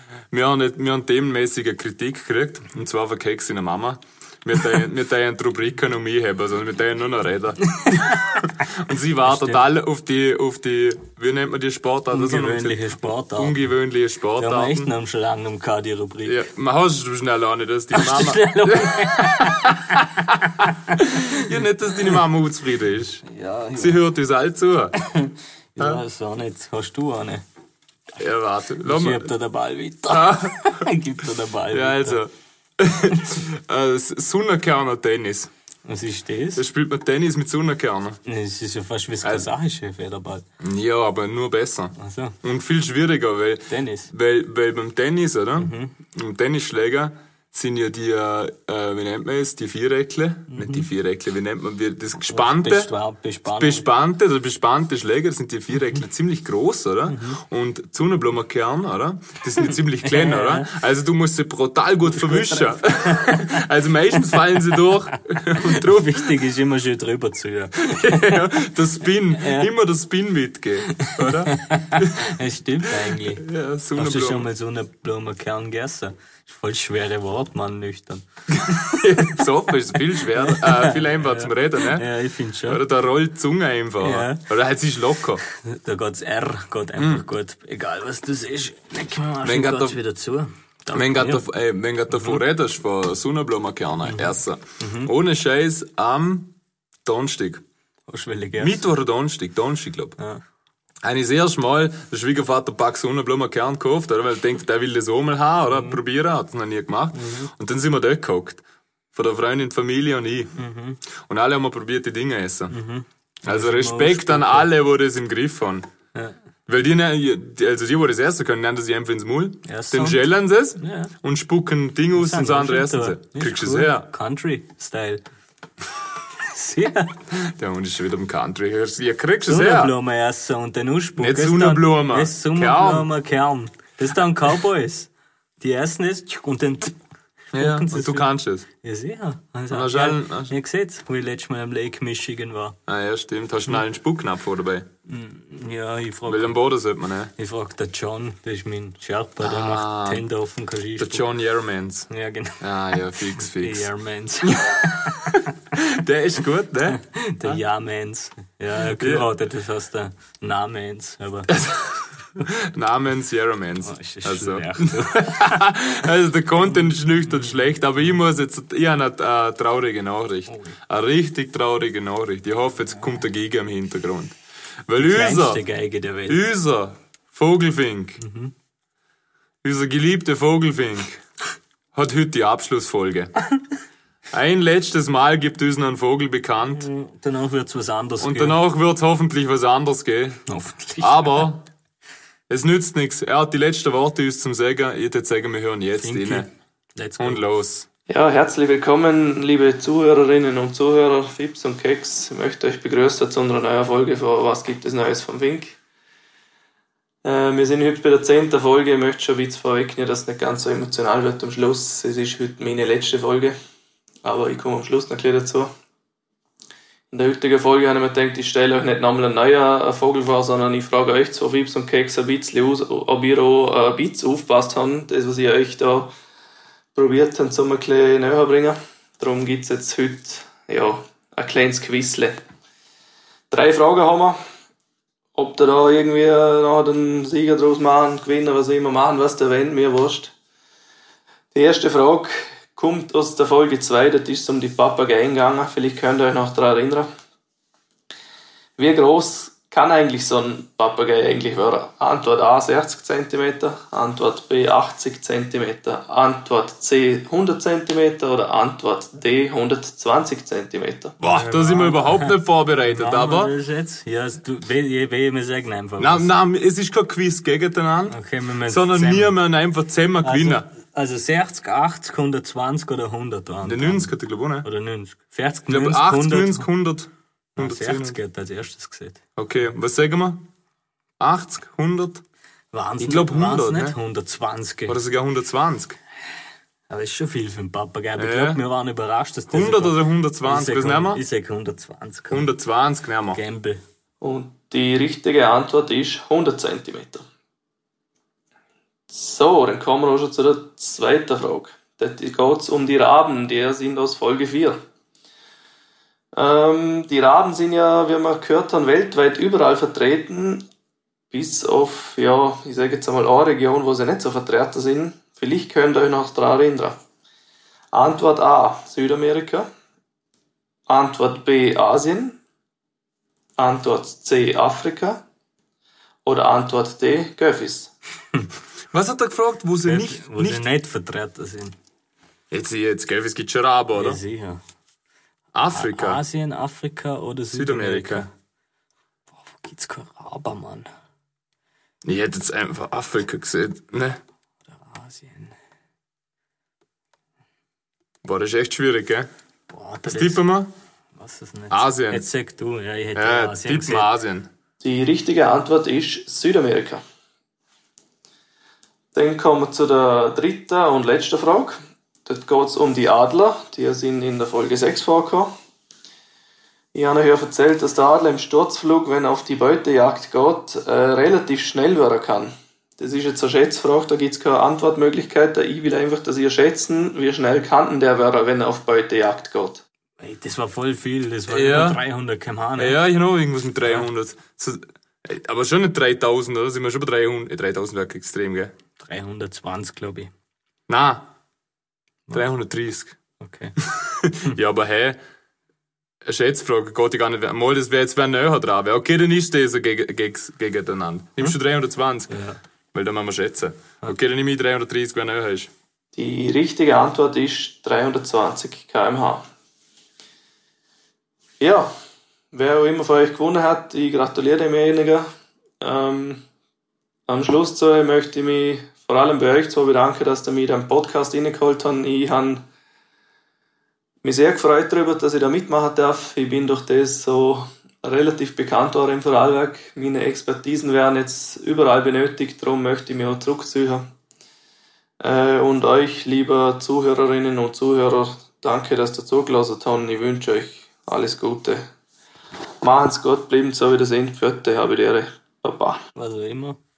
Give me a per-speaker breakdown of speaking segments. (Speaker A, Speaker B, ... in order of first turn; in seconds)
Speaker A: 0.3-14.9, 16.2-23.2, 23.8-24.9, 28.2-29.3, 30.1-30.9, 31.7-35.5, 36.5-38.2, 40.6-52.9, 53.5-66.3, 67.8-72.3, 72.8-74.5, 78.5-82.0, 82.7-85.4, 87.0-87.2, 89.4-90.0, 90.9-96.5, 97.0-97.6, 98.6-100.2, 101.0-108.6, 109.1-110.5, 111.2-112.7, 113.5-115.9, 116.7-124.1, 127.3-129.9, 131.2-133.1, 137.5-138.7, 139.7-140.5, 142.9-144.9, 146.2-147.3, 149.4-150.2, 151.0-152.1, 152.6-153.9, 154.4-157.6, 158.8-159.3, 161.5-174.3, 174.9-175.6, 176.3-178.2, 179.6-181.2, 181.9-183.3, 184.3-186.9, 188.2-190.4, 191.0-191.6, 192.5-196.5, 197.2-197.9, 261.2-263.5, 266.0-270.7, 273.6-274.6, 275.7-278.2, 279.4-280.4, 281.2-282.2, 283.0-284.0, 284.9-286.0, 288.2-288.6, 289.5-291.2, 292.3-293.4, 328.9-330.6, 332.5-334.2, 335.5-336.2, 337.5-338.3, 342.0-344.2, 348.2-349.3, 350.1-350.7, 351.7-352.3, 353.1-354.5, 381.5-382.0, 382.8-388.7, 390.9-391.2, 392.3-393.1, 393.8-395.2, 396.2-402.4, 402.9-405.7
Speaker B: 7.7-8.7, 9.2-9.6, 12.1-13.7, 14.4-16.4, 17.9-21.4, 23.2-24.1, 25.0-27.4, 28.8-32.2, 35.9-36.6, 38.2-40.4, 42.0-42.4, 43.7-44.1, 45.6-45.9, 50.5-50.9, 52.3-53.9, 57.1-57.4, 60.0-60.7, 62.1-63.6, 65.5-68.5, 69.3-69.7, 71.0-79.4, 80.1-82.8, 84.0-84.5, 85.5-91.4, 92.1-92.4, 94.0-95.1, 98.1-98.8, 105.7-106.0, 107.1-107.5, 110.5-111.0, 112.7-114.7, 119.7-120.2, 120.8-121.1, 122.1-125.2, 126.4-127.1, 129.4-137.0, 137.5-138.3, 138.8-142.8, 145.1-146.6, 147.4-151.2, 152.1-155.4, 156.9-161.6, 163.8-165.6, 170.5-170.8, 175.0-176.4, 178.2-178.5, 186.7-188.6, 190.5-191.5, 196.0-197.4, 261.2-266.3, 268.1-269.4, 270.2-274.1, 274.6-276.7, 277.6-279.2, 282.7-285.0, 286.9-292.5, 293.3-293.8, 329.8-331.8, 333.9-334.6, 335.7-338.3, 339.4-340.9, 344.7-345.5, 349.7-350.4, 351.1-354.1, 380.2-383.0, 389.0-390.3, 393.4-393.8, 402.3-402.6, 446.1-446.8
Speaker C: 198.1-205.8, 207.2-213.6, 214.2-215.7, 217.1-226.1, 226.9-232.4, 233.5-234.4, 235.3-240.3, 241.5-247.1, 248.8-261.1, 294.2-297.2, 299.1-304.8, 306.3-310.6, 311.3-317.0, 317.9-319.7, 320.9-322.4, 323.6-325.2, 326.2-327.9, 354.8-357.0, 359.1-365.5, 366.9-379.8, 406.1-409.4, 411.6-411.9, 412.5-415.3, 415.8-416.4, 417.3-422.6, 424.2-434.1, 435.2-441.8, 442.8-446.0